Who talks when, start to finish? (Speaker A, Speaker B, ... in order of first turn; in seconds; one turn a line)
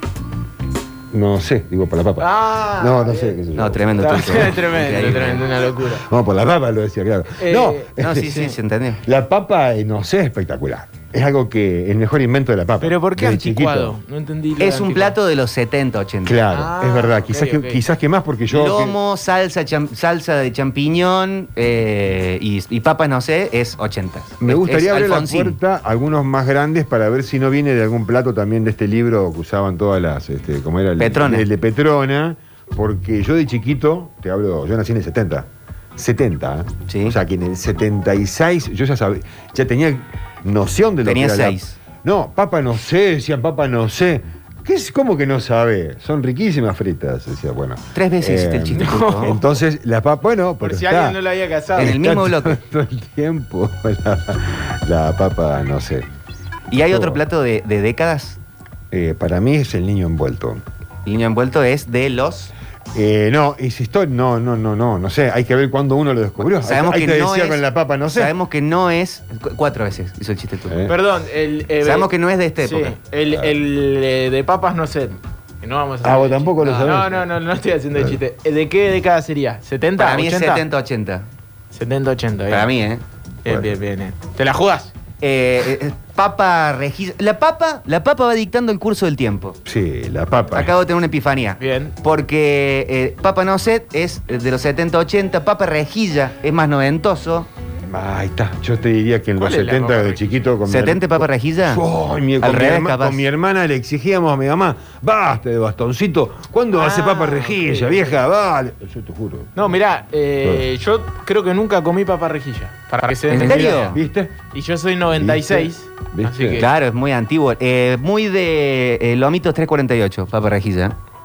Speaker A: 1.1-4.6
Speaker B: 2.2-3.4
Speaker C: 3.5-5.5
Speaker B: 4.0-6.1
Speaker A: 5.9-8.3
Speaker B: 7.4-8.5
Speaker C: 8.0-9.0
Speaker A: 9.0-14.0
Speaker B: 12.8-15.2
Speaker C: 14.6-16.4
Speaker A: 16.2-19.0
Speaker B: 16.5-17.8
Speaker C: 18.5-25.6
Speaker A: 24.4-51.2
Speaker C: 31.0-31.5
Speaker C: 36.9-37.2
Speaker C: 41.0-41.8
Speaker C: 47.9-49.4
Speaker B: 48.8-49.4
Speaker B: 50.6-52.0
Speaker A: 51.7-56.0
Speaker C: 51.8-52.6
Speaker C: 56.7-58.4
Speaker A: 56.8-57.2
Speaker A: 58.9-60.6
Speaker C: 61.0-62.5
Speaker A: 62.9-68.3
Speaker C: 66.4-70.8
Speaker A: 70.7-71.0
Speaker B: 70.9-72.1
Speaker C: 71.8-72.9
Speaker B: 72.6-80.6
Speaker A: 73.3-73.6
Speaker A: 76.0-77.2
Speaker C: 80.0-81.3
Speaker B: 81.7-82.7
Speaker C: 82.5-83.0
Speaker B: 83.4-84.9
Speaker A: 83.5-83.8
Speaker C: 85.2-89.6
Speaker A: 89.6-90.7
Speaker C: 90.5-97.5
Speaker B: 91.6-91.9
Speaker A: 97.9-109.8
Speaker B: 99.4-100.4
Speaker C: 100.7-101.8
Speaker C: 102.4-103.2
Speaker B: 106.7-108.2
Speaker B: 109.5-114.0
Speaker C: 113.3-114.0
Speaker A: 113.3-114.3
Speaker B: 114.5-116.7
Speaker A: 115.1-116.6
Speaker C: 116.5-121.0